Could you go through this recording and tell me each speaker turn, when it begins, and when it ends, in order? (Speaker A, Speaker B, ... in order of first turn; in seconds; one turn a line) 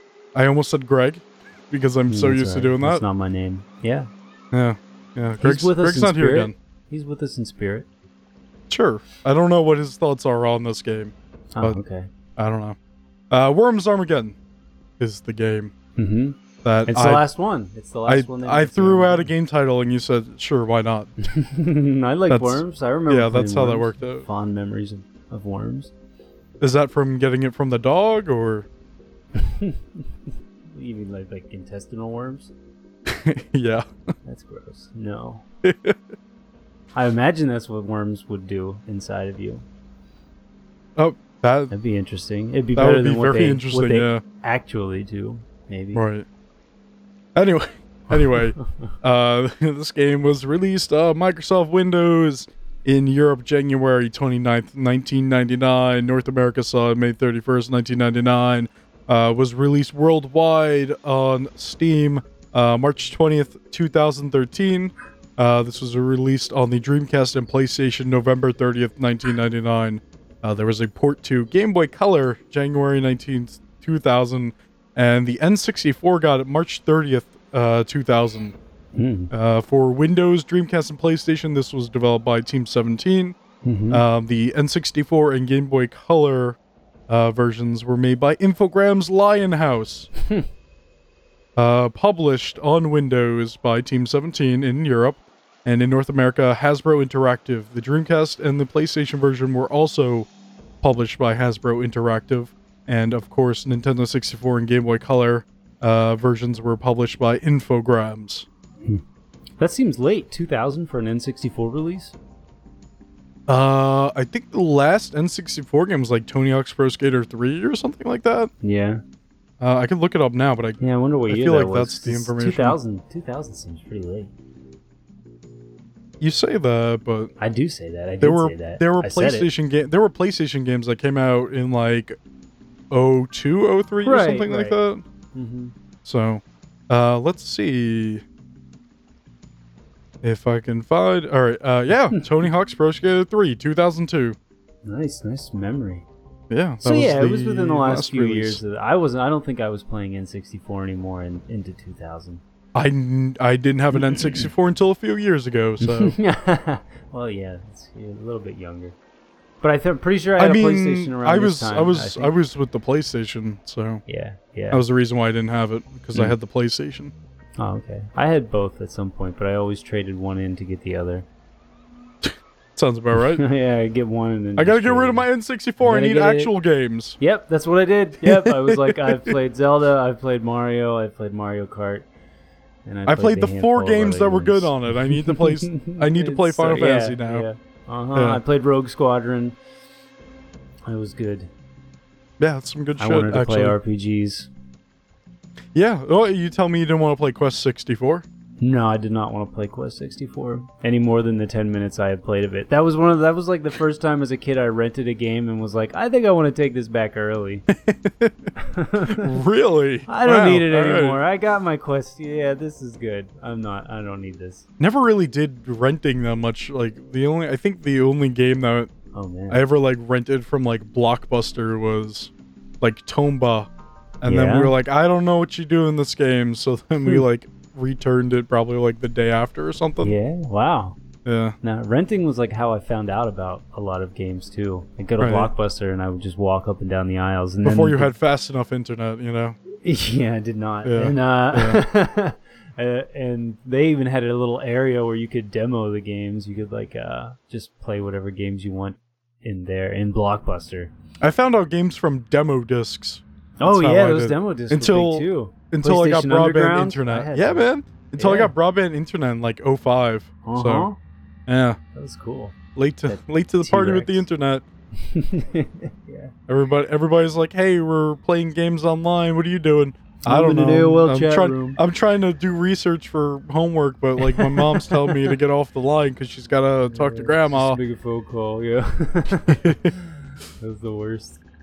Speaker A: 0.3-3.0
Speaker B: 2.1-4.1
Speaker A: 4.5-6.5
Speaker B: 5.4-7.9
Speaker A: 8.7-11.8
Speaker B: 11.5-12.1
Speaker A: 12.4-12.8
Speaker A: 13.3-14.3
Speaker A: 15.0-15.7
Speaker B: 15.9-19.3
Speaker A: 16.6-17.2
Speaker A: 18.1-21.1
Speaker B: 21.2-25.9
Speaker A: 22.3-24.2
Speaker A: 26.6-28.7
Speaker B: 29.3-30.1
Speaker B: 30.7-32.5
Speaker A: 33.1-33.8
Speaker B: 34.2-35.4
Speaker A: 35.6-36.1
Speaker B: 36.9-39.6
Speaker A: 41.0-41.7
Speaker B: 41.7-46.0
Speaker A: 42.7-44.2
Speaker A: 45.9-46.2
Speaker A: 47.3-78.6
Speaker B: 78.9-79.3
Speaker A: 79.3-83.4
Speaker B: 83.6-84.0
Speaker A: 83.9-86.6
Speaker A: 87.1-90.1
Speaker A: 91.5-100.3
Speaker A: 100.8-108.5
Speaker B: 109.6-112.1
Speaker A: 113.5-118.5
Speaker B: 118.6-119.0
Speaker A: 119.6-122.8
Speaker B: 120.8-124.3
Speaker A: 126.2-127.3
Speaker B: 127.4-129.5
Speaker A: 128.2-132.2
Speaker A: 132.9-135.0
Speaker B: 134.0-134.8
Speaker B: 135.3-135.7
Speaker A: 136.0-138.2
Speaker A: 140.2-144.4
Speaker B: 144.8-146.1
Speaker A: 146.5-148.6
Speaker B: 146.8-152.4
Speaker A: 152.7-156.2
Speaker B: 153.9-154.5
Speaker B: 155.8-158.9
Speaker B: 159.6-162.3
Speaker A: 160.4-164.0
Speaker B: 164.1-164.8
Speaker A: 164.7-167.1
Speaker B: 167.6-171.3
Speaker A: 172.2-173.4
Speaker B: 173.1-175.3
Speaker A: 174.6-177.2
Speaker B: 175.8-176.5
Speaker B: 177.2-182.1
Speaker A: 178.2-179.3
Speaker B: 182.8-189.6
Speaker A: 183.1-187.4
Speaker A: 188.1-188.4
Speaker B: 190.8-191.5
Speaker A: 192.4-193.8
Speaker B: 193.0-194.5
Speaker A: 195.7-198.2
Speaker B: 198.6-207.7
Speaker A: 207.7-208.5
Speaker B: 208.6-209.3
Speaker A: 209.0-211.2
Speaker B: 210.1-214.6
Speaker A: 214.8-218.9
Speaker B: 219.1-219.6
Speaker A: 219.5-223.7
Speaker A: 224.2-230.2
Speaker B: 224.2-224.8
Speaker B: 230.0-231.0
Speaker A: 231.2-231.6
Speaker B: 231.6-238.1
Speaker A: 235.2-235.5
Speaker A: 237.6-239.6
Speaker B: 239.8-250.9
Speaker A: 240.8-241.8
Speaker A: 251.2-260.9
Speaker B: 253.6-258.5
Speaker B: 260.4-261.0
Speaker A: 261.5-261.8
Speaker B: 261.9-264.2
Speaker A: 262.7-264.6
Speaker B: 264.9-266.3
Speaker A: 266.5-277.8
Speaker B: 270.2-271.8
Speaker B: 274.3-275.4
Speaker B: 276.9-281.4
Speaker A: 279.5-279.9